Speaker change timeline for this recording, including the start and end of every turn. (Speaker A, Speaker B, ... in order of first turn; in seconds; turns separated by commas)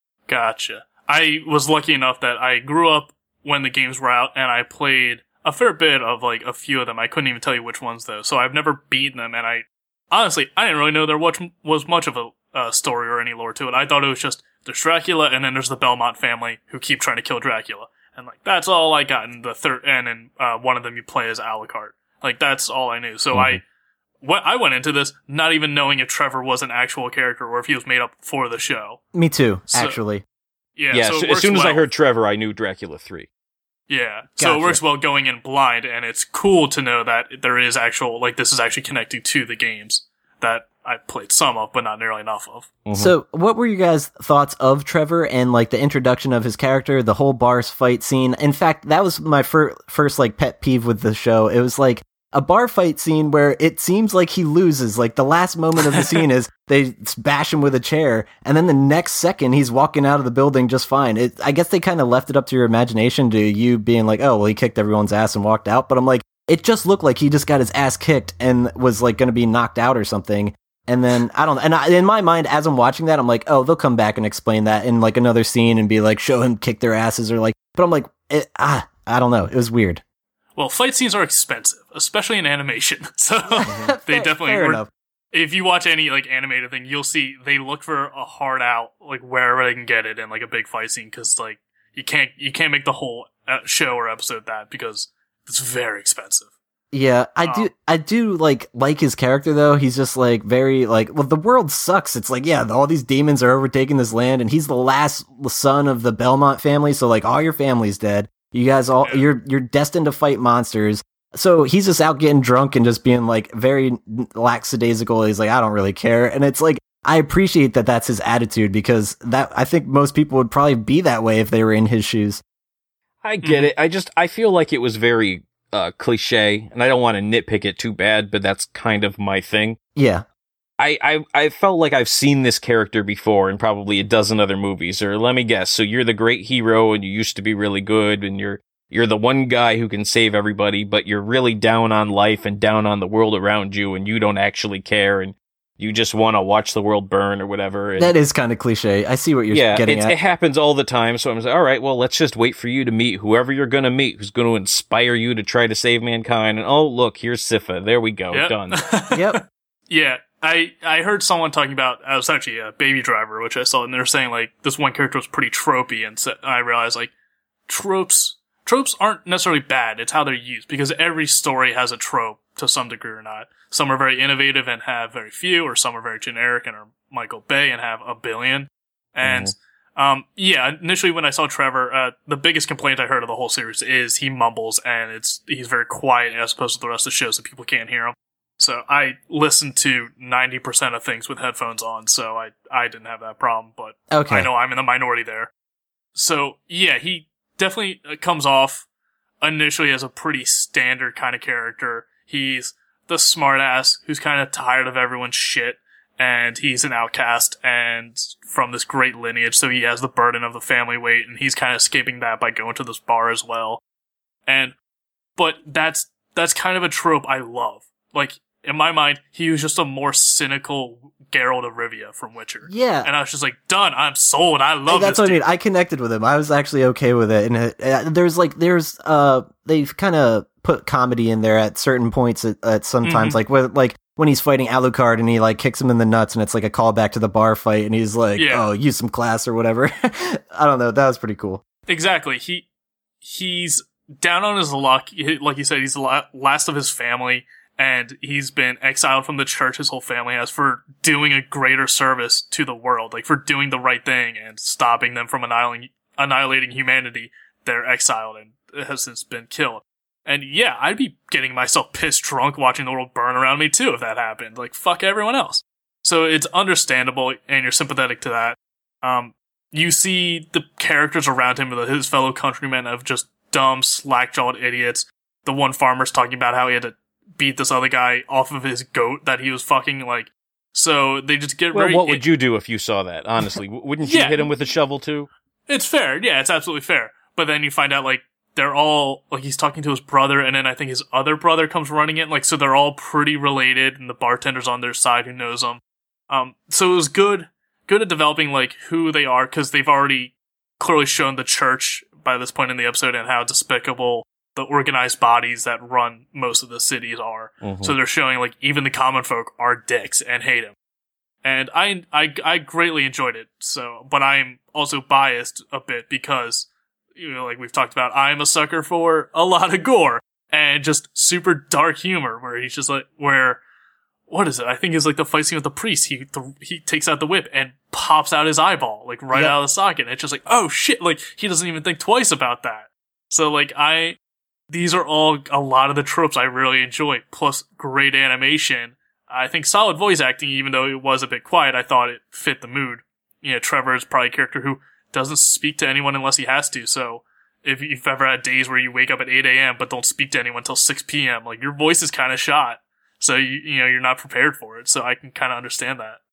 Speaker A: 0.3-23.6, Speaker B: 23.3-23.6, Speaker A: 24.2-29.0, Speaker C: 29.1-30.2, Speaker A: 29.7-30.0, Speaker A: 30.8-31.8, Speaker B: 30.9-33.3, Speaker A: 33.9-42.7, Speaker C: 34.4-34.8, Speaker B: 42.9-43.1, Speaker C: 43.0-80.0, Speaker A: 80.6-96.5, Speaker C: 83.7-84.9, Speaker B: 83.7-83.9, Speaker C: 96.9-122.4, Speaker A: 97.4-97.7, Speaker B: 123.2-129.8, Speaker A: 123.4-123.7, Speaker C: 129.9-130.3, Speaker B: 130.8-148.2, Speaker C: 148.0-150.1, Speaker B: 149.5-158.8, Speaker A: 158.3-167.1, Speaker C: 159.1-159.4, Speaker A: 167.7-195.5, Speaker B: 179.2-179.5, Speaker C: 194.1-194.5, Speaker A: 196.2-198.8, Speaker A: 199.4-213.8, Speaker A: 214.5-214.7, Speaker A: 215.4-225.4, Speaker C: 222.7-223.1, Speaker C: 224.9-241.6, Speaker A: 233.0-233.4, Speaker A: 238.4-238.7, Speaker A: 241.9-242.7, Speaker A: 243.2-282.2, Speaker B: 281.7-285.3, Speaker A: 284.0-284.4, Speaker A: 285.7-310.7, Speaker B: 307.6-307.9, Speaker A: 311.4-323.6, Speaker A: 324.3-334.2, Speaker C: 329.3-329.6, Speaker A: 334.7-356.2